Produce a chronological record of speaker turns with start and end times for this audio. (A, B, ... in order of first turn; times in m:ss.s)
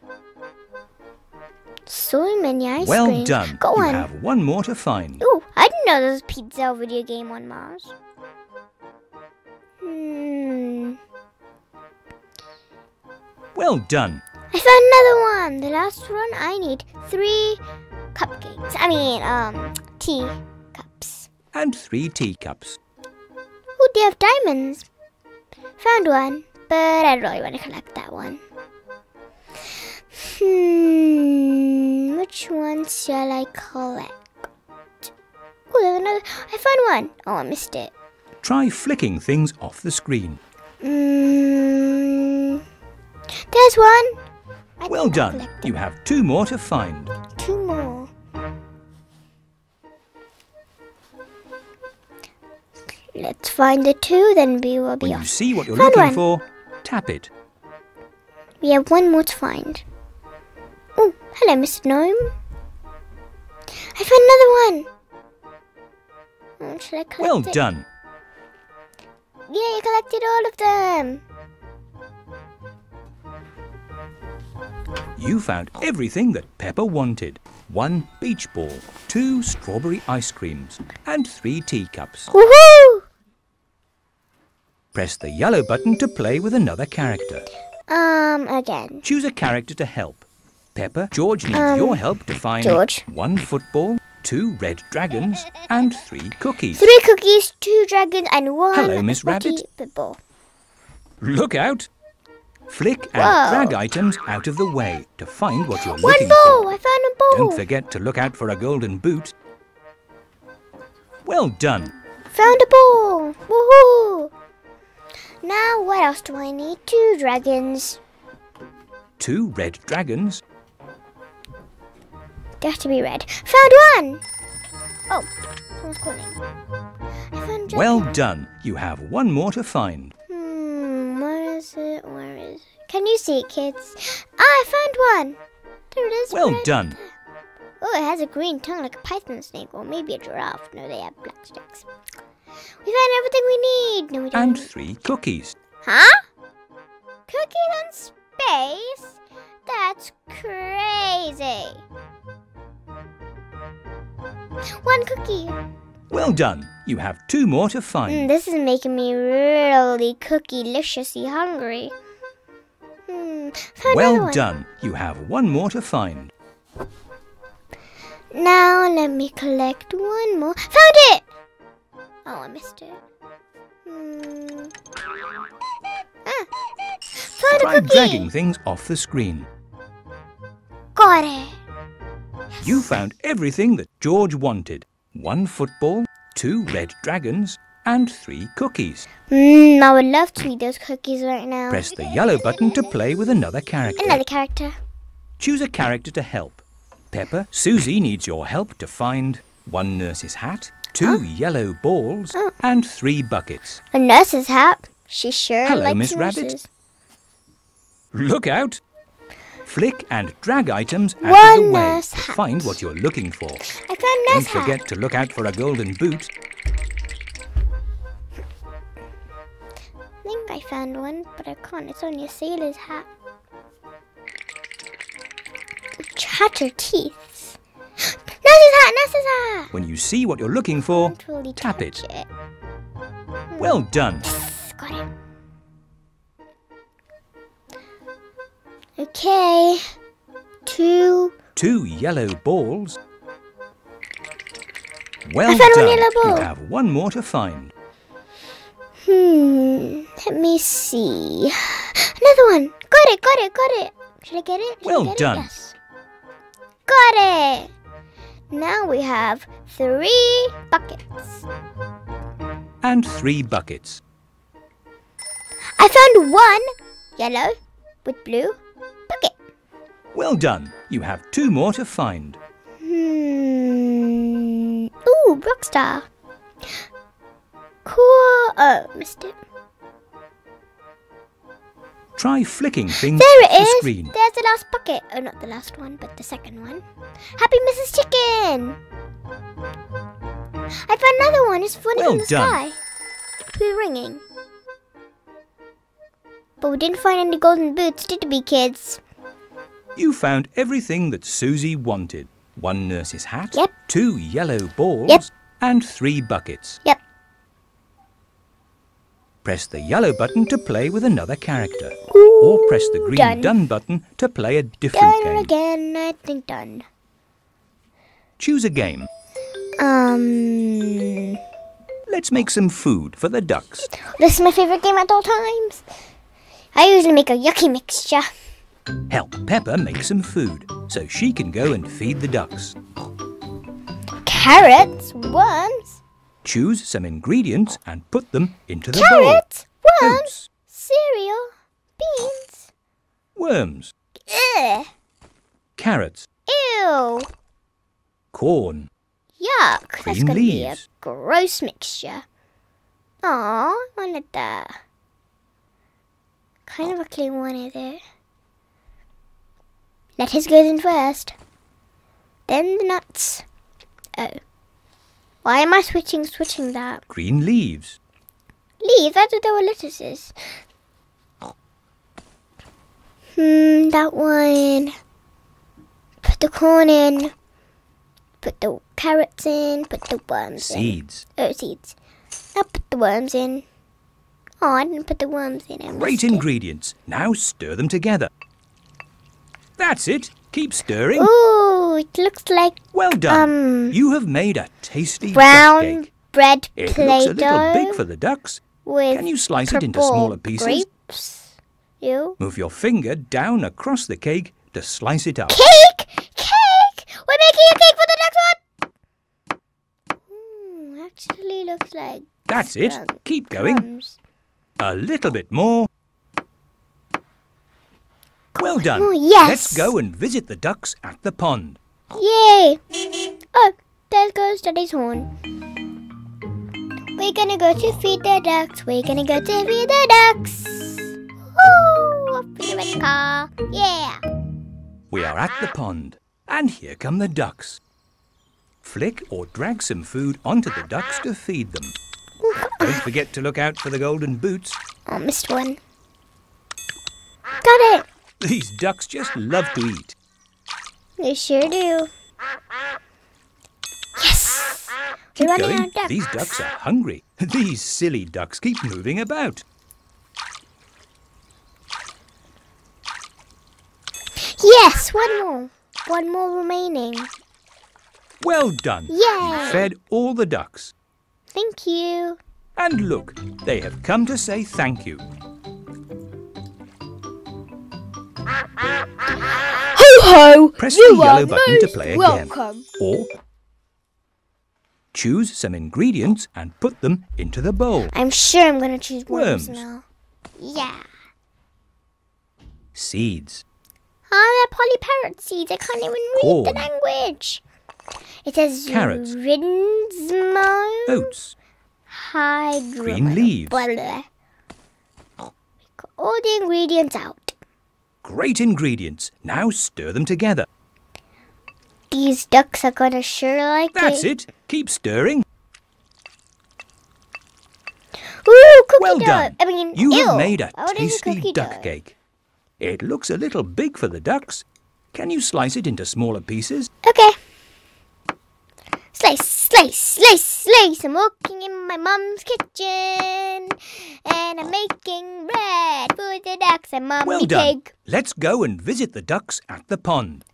0:01.9-0:04.1 A
0:02.8-0:05.2 B
0:05.2-0:07.9 A
0:09.8-0:11.0 A
0:13.5-0:14.2 B
0:14.5-0:17.6 A
0:18.1-0:21.3 A
0:21.5-0:22.8 B
0:23.8-0:24.9 A
0:25.8-0:28.4 A
0:30.1-0:34.4 A
0:35.7-0:37.9 A
0:38.4-0:40.4 B
0:40.8-0:42.6 A
0:43.5-0:44.2 A
0:44.8-0:45.7 A
0:44.9-0:47.1 B
0:47.3-0:48.1 A
0:53.1-0:56.2 A
0:55.0-0:57.3 B
0:58.6-0:59.8 A
1:01.0-1:02.4 A
1:03.9-1:04.9 A
1:06.6-1:07.6 A
1:07.2-1:07.9 B
1:09.5-1:11.2 A
1:15.2-1:22.3 B
1:22.3-1:23.0 A
1:24.9-1:27.5 B
1:27.9-1:29.0 A
1:29.0-1:36.8 B
1:31.5-1:32.0 A
1:32.6-1:33.0 A
1:36.8-1:40.2 A
1:38.7-1:39.6 B
1:41.2-1:41.9 B
1:42.7-1:46.7 B
1:43.2-1:43.8 A
1:45.8-1:47.6 A
1:47.3-1:49.3 B
1:51.2-1:51.9 B
1:52.3-1:54.3 A
1:55.4-1:58.0 A
1:59.2-2:00.4 B
2:02.6-2:04.2 A
2:05.8-2:06.4 A
2:07.3-2:08.1 A
2:07.7-2:10.1 B
2:10.3-2:15.4 A
2:15.9-2:17.1 A
2:16.3-2:17.0 B
2:17.8-2:21.9 A
2:22.8-2:24.7 A
2:24.3-2:25.6 B
2:25.8-2:26.2 A
2:27.3-2:31.8 A
2:34.7-2:35.6 A
2:36.1-2:38.3 B
2:38.1-2:41.9 A
2:43.1-2:44.4 A
2:43.9-2:46.3 B
2:48.3-2:51.2 A
2:52.2-2:53.0 A
2:53.8-2:54.7 A
2:57.2-2:58.3 A
2:57.5-2:59.5 B
3:00.9-3:01.6 A
3:02.5-3:02.8 A
3:02.6-3:09.1 B
3:09.3-3:11.9 A
3:11.7-3:14.2 B
3:14.0-3:14.8 A
3:15.4-3:23.8 B
3:23.9-3:26.7 A
3:25.6-3:26.5 B
3:28.1-3:28.8 B
3:29.6-3:33.7 B
3:31.2-3:32.8 A
3:33.7-3:34.8 A
3:34.3-3:36.3 B
3:40.2-3:43.1 A
3:46.0-3:49.7 A
3:49.7-3:52.0 B
3:50.9-3:52.3 A
3:53.5-3:55.1 A
3:53.6-3:54.2 B
3:59.0-3:59.9 A
4:00.7-4:01.3 A
4:01.5-4:03.0 B
4:05.2-4:07.7 B
4:05.5-4:06.5 A
4:09.0-4:15.8 A
4:14.8-4:15.5 B
4:16.9-4:17.7 A
4:18.5-4:21.4 A
4:22.8-4:24.0 B
4:25.8-4:28.6 A
4:29.1-4:29.3 A
4:30.1-4:32.4 B
4:32.8-4:36.1 A
4:37.8-4:39.4 A
4:42.2-4:44.2 B
4:43.0-4:46.8 A
4:47.4-4:48.8 A
4:50.8-4:52.8 A
4:52.0-4:52.6 B
4:53.5-4:54.2 A
4:56.6-4:59.0 A
5:00.0-5:06.8 B
5:09.4-5:15.5 B
5:12.1-5:13.5 A
5:14.9-5:16.8 A
5:18.4-5:19.1 B
5:19.8-5:21.4 A
5:22.1-5:23.9 B
5:23.9-5:25.8 A
5:26.8-5:28.3 A
5:29.1-5:32.8 B
5:34.2-5:36.0 A
5:36.4-5:39.4 B
5:38.9-5:42.7 A
5:40.0-5:40.5 B
5:43.4-5:43.9 B
5:44.3-5:44.9 A
5:45.8-5:46.3 B
5:46.5-5:47.3 A
5:48.3-5:48.9 B
5:49.4-5:52.2 A
5:50.0-5:50.8 B
5:53.2-5:54.8 A
5:56.7-5:58.0 A
6:00.2-6:01.4 A
6:02.5-6:03.4 A
6:05.4-6:07.0 A
6:07.1-6:08.0 B
6:08.8-6:10.3 A
6:13.4-6:15.0 A
6:16.2-6:17.3 A
6:18.4-6:22.0 A
6:20.6-6:21.2 B
6:22.5-6:23.6 A
6:24.6-6:26.4 A
6:25.9-6:28.3 B
6:29.8-6:31.3 B
6:31.2-6:34.0 A
6:32.9-6:36.0 B
6:35.3-6:38.0 A
6:36.8-6:40.8 B
6:38.8-6:42.4 A
6:42.4-6:45.6 B
6:45.5-6:48.6 A
6:50.3-6:54.2 A
6:52.5-6:53.9 B
6:54.8-6:55.9 B
6:58.6-7:01.8 B
6:58.8-6:59.9 A
7:02.1-7:02.8 A
7:03.5-7:05.3 A
7:07.2-7:14.2 A
7:15.1-7:17.8 B
7:18.8-7:22.0 B
7:22.4-7:23.0 A
7:22.8-7:24.8 B
7:25.0-7:25.8 A
7:27.6-7:28.0 A
7:28.4-7:30.2 B
7:31.2-7:32.1 A
7:34.2-7:36.6 A
7:35.4-7:39.6 B
7:44.4-7:47.3 A
7:48.4-7:50.9 B
7:49.1-7:49.9 A
7:51.5-7:52.4 A
7:52.8-7:55.2 B
8:00.0-8:02.8 A
8:00.8-8:03.3 B
8:05.1-8:08.1 B
8:08.1-8:10.0 A
8:09.3-8:09.8 B
8:10.6-8:11.1 A
8:12.9-8:13.6 B
8:14.3-8:17.6 A
8:16.3-8:16.9 B
8:18.4-8:21.3 A
8:18.9-8:19.3 B
8:21.1-8:21.5 B
8:22.1-8:24.3 A
8:23.0-8:23.8 B
8:26.0-8:27.6 A
8:28.2-8:30.7 B
8:32.1-8:34.3 A
8:33.9-8:35.4 B
8:38.4-8:41.9 A
8:39.0-8:42.2 B
8:42.8-8:46.9 B
8:47.0-8:47.4 A
8:49.1-8:57.9 A
8:57.2-9:00.4 B